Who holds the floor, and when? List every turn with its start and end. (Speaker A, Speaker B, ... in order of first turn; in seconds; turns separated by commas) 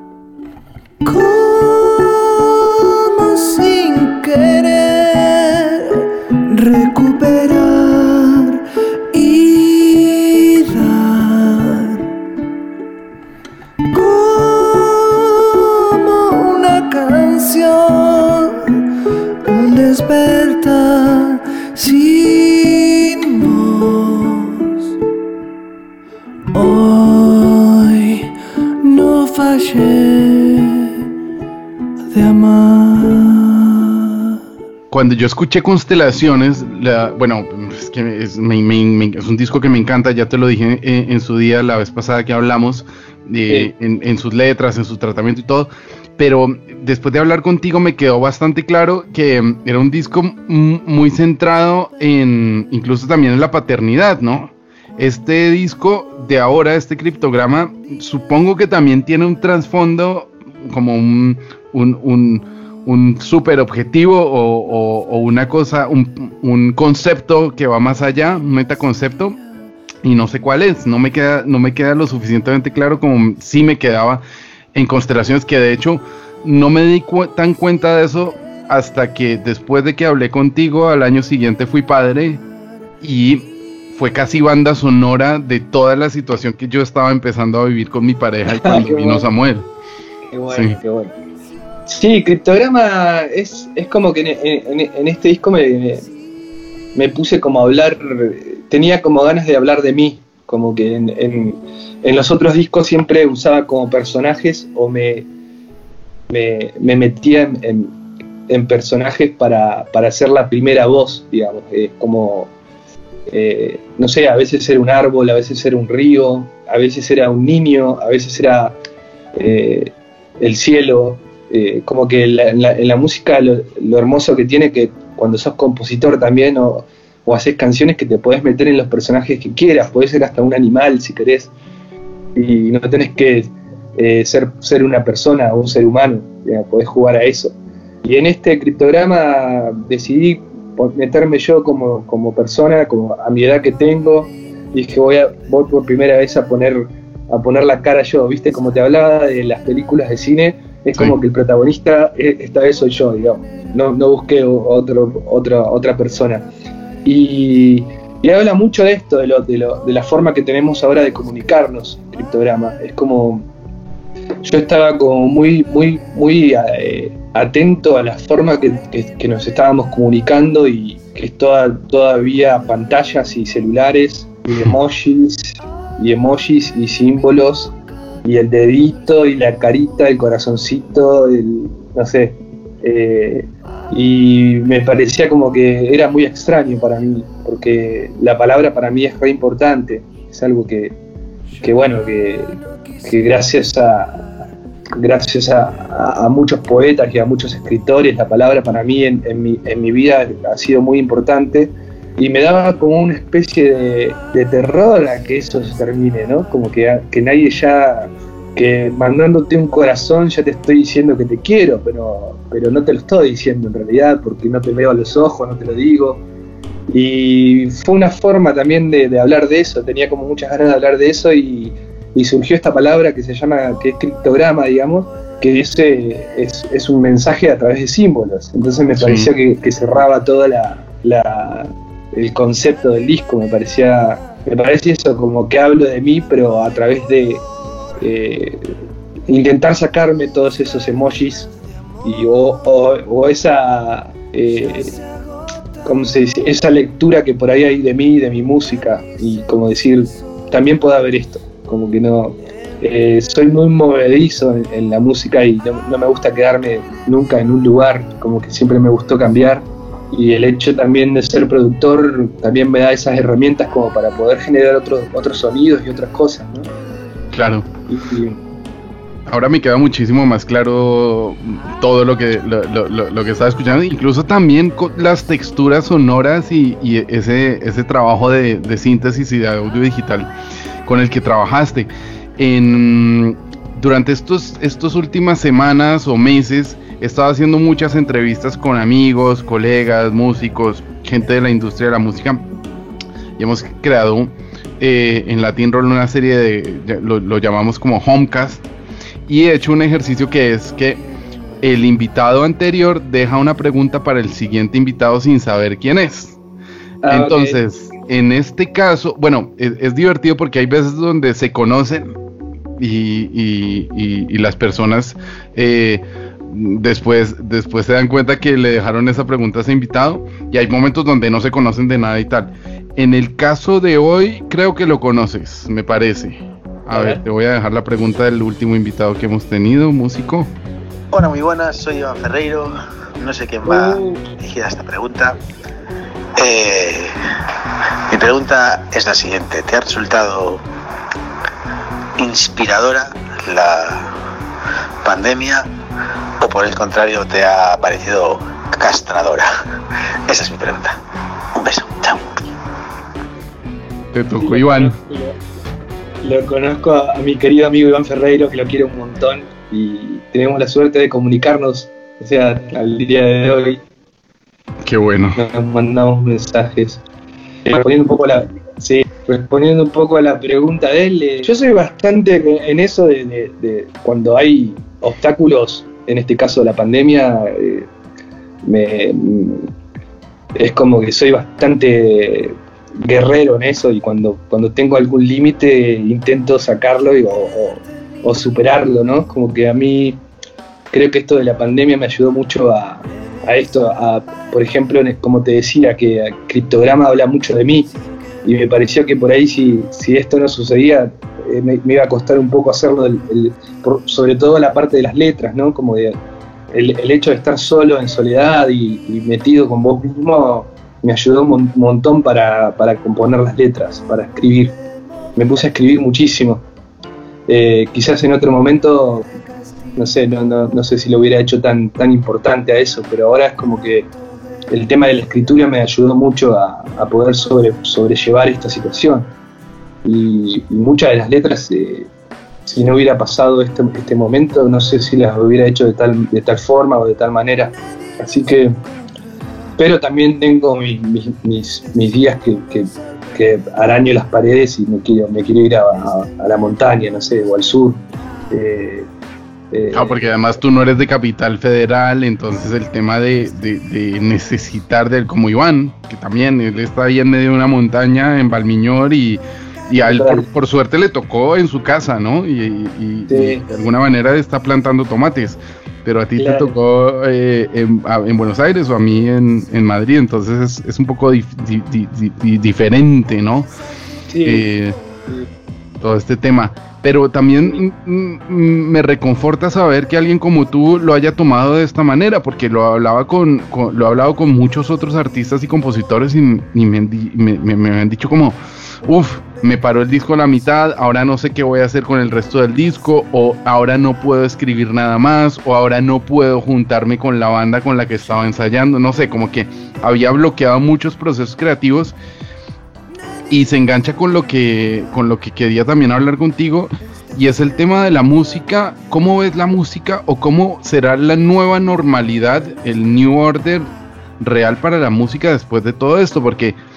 Speaker A: 1.0-12.1, Speaker A: 13.9-18.8, Speaker A: 19.4-24.7, Speaker A: 26.5-28.3, Speaker A: 28.8-31.0, Speaker A: 32.1-34.3, Speaker B: 34.9-69.4, Speaker B: 70.0-74.2, Speaker B: 74.7-82.4, Speaker B: 83.0-89.7, Speaker C: 88.5-89.3, Speaker C: 90.3-91.1, Speaker B: 90.5-90.8, Speaker C: 91.9-96.1, Speaker C: 96.9-105.3, Speaker C: 106.3-108.0, Speaker C: 108.5-112.5, Speaker C: 113.3-118.8, Speaker C: 119.4-131.5, Speaker C: 132.4-156.5, Speaker C: 157.1-163.5, Speaker C: 164.4-177.7, Speaker B: 174.5-174.8, Speaker C: 178.2-191.0, Speaker C: 191.6-194.3, Speaker C: 195.0-216.2, Speaker C: 216.9-237.4, Speaker B: 229.0-229.3, Speaker C: 238.0-238.7, Speaker C: 239.3-241.5, Speaker C: 242.0-245.0, Speaker C: 245.8-266.7, Speaker B: 267.3-267.7, Speaker C: 267.9-268.4, Speaker B: 269.3-280.3, Speaker B: 280.9-292.4, Speaker B: 293.4-298.6, Speaker B: 299.3-301.0, Speaker B: 301.6-306.4, Speaker C: 307.0-307.6, Speaker B: 307.1-312.1, Speaker B: 312.8-330.5, Speaker C: 326.9-327.2, Speaker D: 331.1-335.4, Speaker C: 333.6-334.3, Speaker D: 336.4-337.1, Speaker D: 338.1-340.6, Speaker D: 342.2-344.1, Speaker D: 345.0-345.7, Speaker D: 346.4-349.5, Speaker D: 350.3-351.0, Speaker D: 351.6-352.3, Speaker B: 354.1-355.0, Speaker C: 354.3-355.4, Speaker C: 356.2-363.8, Speaker B: 364.8-365.4, Speaker C: 365.4-367.0, Speaker C: 367.7-377.9, Speaker C: 378.6-379.7, Speaker C: 380.6-390.2, Speaker C: 390.9-397.9, Speaker C: 398.4-406.2, Speaker C: 406.7-414.8, Speaker C: 415.4-416.6, Speaker C: 417.5-419.3, Speaker C: 420.0-424.1, Speaker C: 424.7-429.3, Speaker C: 430.1-432.1, Speaker C: 432.7-438.8, Speaker C: 439.8-449.1, Speaker C: 449.7-450.2, Speaker B: 449.9-473.7, Speaker C: 460.0-460.5, Speaker C: 463.3-463.6, Speaker C: 466.4-466.8, Speaker C: 474.3-474.7, Speaker B: 474.4-475.0, Speaker B: 476.0-502.2, Speaker B: 503.5-516.8